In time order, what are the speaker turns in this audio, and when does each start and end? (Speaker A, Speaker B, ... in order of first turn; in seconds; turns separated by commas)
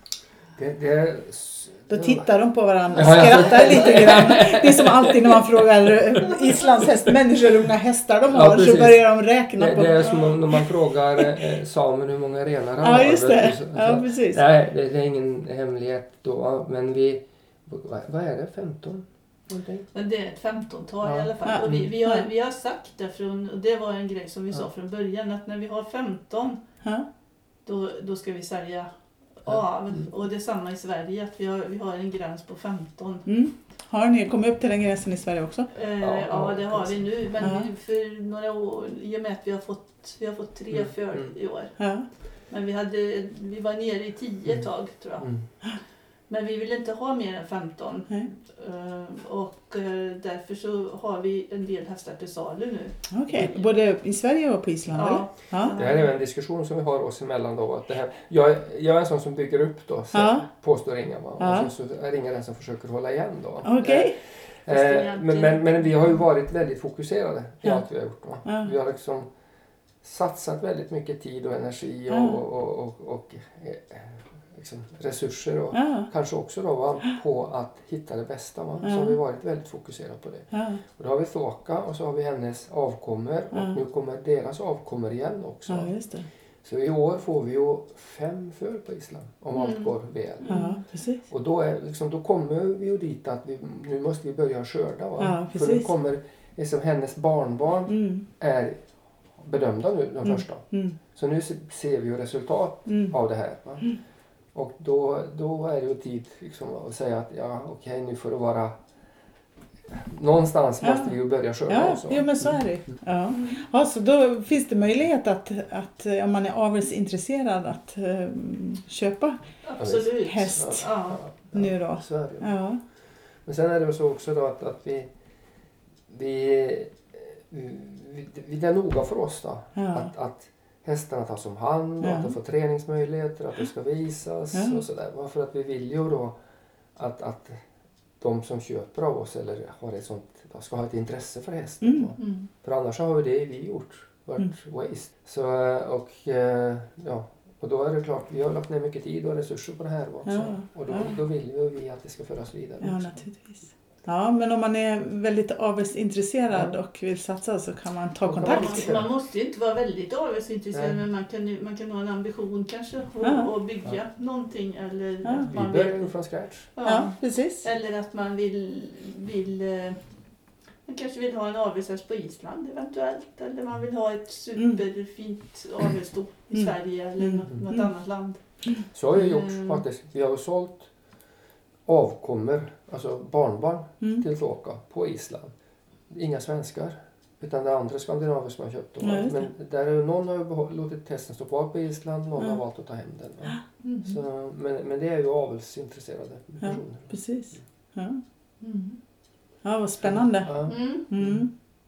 Speaker A: 0.6-2.3, Speaker B: 1.9-10.7, Speaker A: 2.9-6.6, Speaker A: 8.3-19.9, Speaker B: 12.8-14.4, Speaker C: 19.9-26.6, Speaker A: 21.0-21.9, Speaker B: 21.4-22.3, Speaker C: 27.6-33.3, Speaker A: 29.5-30.0, Speaker B: 33.3-35.7, Speaker C: 35.7-45.5, Speaker A: 36.0-37.1, Speaker B: 37.4-37.7, Speaker A: 40.7-41.4, Speaker B: 41.8-42.1, Speaker A: 45.2-45.5, Speaker C: 46.3-53.8, Speaker B: 53.1-55.8, Speaker C: 54.9-56.1, Speaker A: 55.7-69.3, Speaker B: 60.1-60.5, Speaker B: 61.4-61.7, Speaker B: 63.6-64.2, Speaker C: 64.7-65.9, Speaker B: 67.6-68.7, Speaker A: 70.0-98.8, Speaker B: 72.1-72.4, Speaker B: 75.7-76.1, Speaker B: 78.8-79.2, Speaker B: 80.5-80.8, Speaker B: 83.5-83.8, Speaker B: 85.7-86.3, Speaker C: 89.5-90.8, Speaker B: 90.5-91.2, Speaker B: 95.2-95.9, Speaker B: 97.9-98.3, Speaker A: 99.4-104.0, Speaker B: 100.2-101.0, Speaker B: 102.9-103.2, Speaker A: 104.5-108.7, Speaker A: 109.9-113.0, Speaker B: 110.8-119.4, Speaker C: 113.3-113.7, Speaker C: 119.6-121.2, Speaker A: 119.8-122.7, Speaker B: 120.0-120.9, Speaker B: 121.5-122.8, Speaker A: 123.4-125.1, Speaker A: 126.1-136.4, Speaker B: 129.8-130.1, Speaker B: 132.0-132.3, Speaker B: 134.5-134.8, Speaker A: 136.9-137.6, Speaker A: 138.2-153.2, Speaker B: 141.8-142.1, Speaker C: 142.2-142.5, Speaker B: 150.3-151.2, Speaker B: 152.8-159.0, Speaker A: 158.2-159.1, Speaker C: 158.4-166.2, Speaker A: 160.7-161.0, Speaker B: 163.2-163.5, Speaker B: 165.2-165.5, Speaker A: 165.5-166.7, Speaker C: 166.7-170.0, Speaker B: 166.8-167.7, Speaker C: 170.9-179.8, Speaker B: 176.5-177.9, Speaker A: 178.9-180.9, Speaker A: 181.9-185.5, Speaker A: 186.1-197.2, Speaker B: 189.0-189.5, Speaker C: 193.8-194.2, Speaker B: 196.6-198.2, Speaker C: 198.6-199.0, Speaker B: 199.6-201.5, Speaker A: 200.0-201.3, Speaker C: 200.7-201.1